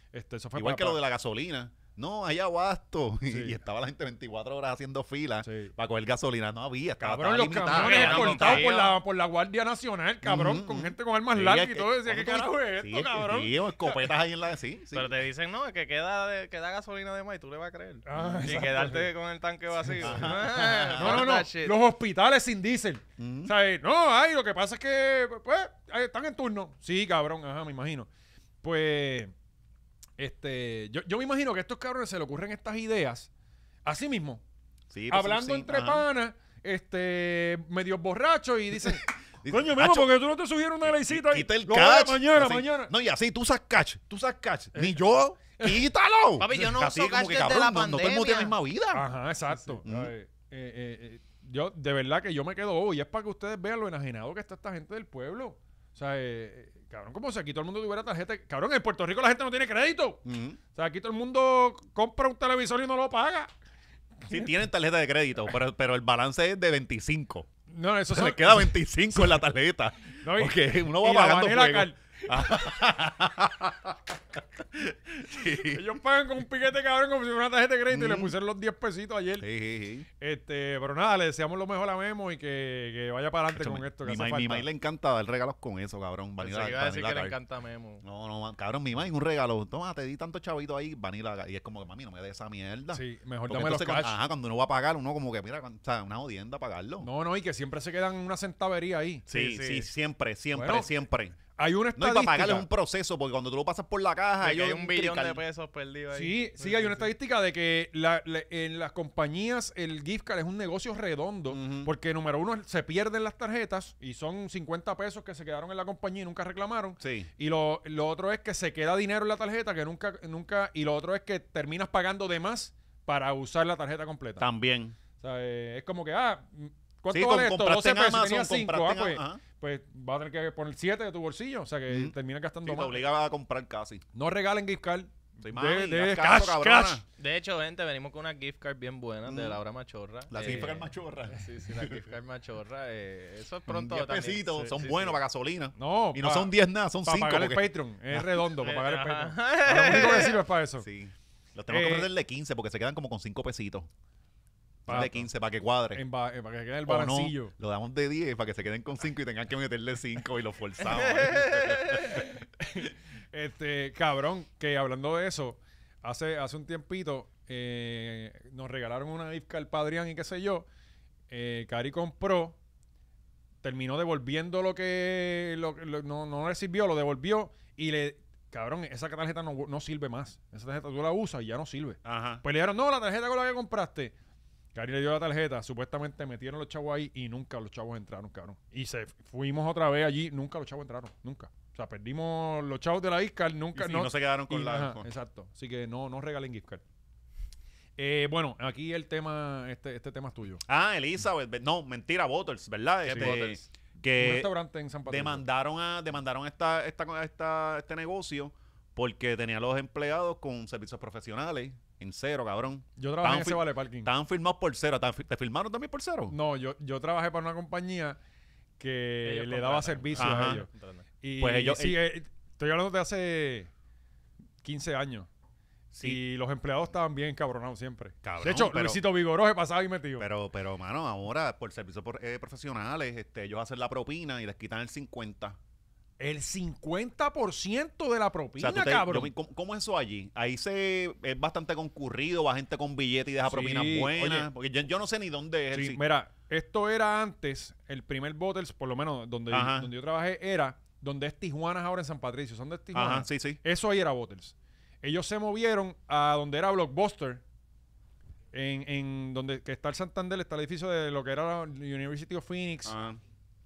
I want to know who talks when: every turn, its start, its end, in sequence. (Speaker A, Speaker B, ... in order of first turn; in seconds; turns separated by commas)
Speaker A: 0.1-1.0, Speaker B: 0.5-8.8, Speaker A: 3.3-3.6, Speaker A: 5.4-5.7, Speaker A: 7.0-14.1, Speaker C: 7.6-9.0, Speaker B: 10.2-15.1, Speaker C: 14.9-21.8, Speaker A: 18.1-19.1, Speaker B: 18.2-18.7, Speaker A: 19.9-28.1, Speaker B: 20.0-21.4, Speaker B: 23.2-23.5, Speaker A: 28.6-29.3, Speaker A: 30.2-33.3, Speaker A: 33.8-34.4, Speaker B: 34.9-36.0, Speaker A: 35.1-42.9, Speaker B: 38.9-40.1, Speaker B: 40.8-49.0, Speaker A: 44.7-45.0, Speaker A: 45.6-45.8, Speaker C: 46.4-48.5, Speaker A: 48.9-60.2, Speaker B: 49.8-50.1, Speaker B: 60.2-60.6, Speaker A: 60.7-63.5, Speaker B: 64.3-67.5, Speaker A: 67.7-69.3, Speaker B: 68.1-75.8, Speaker A: 70.2-72.2, Speaker A: 75.6-79.5, Speaker B: 77.9-78.3, Speaker B: 79.4-80.1, Speaker A: 80.2-84.7, Speaker B: 83.5-87.3, Speaker C: 86.4-88.0, Speaker B: 88.0-97.1, Speaker A: 92.9-94.2, Speaker A: 97.0-99.3, Speaker B: 99.3-101.4, Speaker C: 99.3-99.9, Speaker A: 100.5-100.9, Speaker A: 101.5-102.7, Speaker B: 101.9-105.4, Speaker C: 104.4-107.1, Speaker A: 106.1-124.5, Speaker B: 111.5-111.9, Speaker B: 117.0-117.3, Speaker B: 124.4-125.0, Speaker A: 125.2-133.0, Speaker B: 127.1-129.4, Speaker B: 131.9-134.0, Speaker A: 134.1-137.0, Speaker B: 135.4-137.0, Speaker C: 137.2-145.2, Speaker B: 139.2-139.6, Speaker B: 140.3-142.1, Speaker B: 143.7-148.4, Speaker A: 145.8-150.8, Speaker C: 148.6-150.4, Speaker B: 150.8-153.9, Speaker A: 151.7-152.1, Speaker A: 154.9-155.3, Speaker B: 154.9-156.0, Speaker A: 155.9-157.5, Speaker B: 156.8-162.2, Speaker C: 160.9-162.0, Speaker A: 162.1-170.7, Speaker A: 171.3-172.6, Speaker A: 173.6-184.1, Speaker B: 182.0-182.4, Speaker A: 184.7-196.8, Speaker B: 193.7-195.1, Speaker A: 198.0-200.6, Speaker B: 200.7-204.5, Speaker A: 203.1-203.4, Speaker C: 203.1-203.6, Speaker A: 204.2-205.4, Speaker B: 205.1-216.3, Speaker A: 213.0-214.1, Speaker A: 216.3-218.2, Speaker A: 218.8-220.7, Speaker C: 219.2-221.0, Speaker B: 220.2-220.6, Speaker A: 221.2-223.7, Speaker B: 221.4-222.0, Speaker A: 224.6-225.3, Speaker B: 225.9-226.2, Speaker A: 226.0-230.3, Speaker B: 228.2-229.0, Speaker B: 230.2-235.6, Speaker A: 236.2-239.3, Speaker B: 238.6-246.0, Speaker A: 243.4-244.5, Speaker A: 245.7-257.4, Speaker B: 249.5-249.9, Speaker B: 252.9-253.6, Speaker A: 258.5-262.9, Speaker B: 262.8-263.2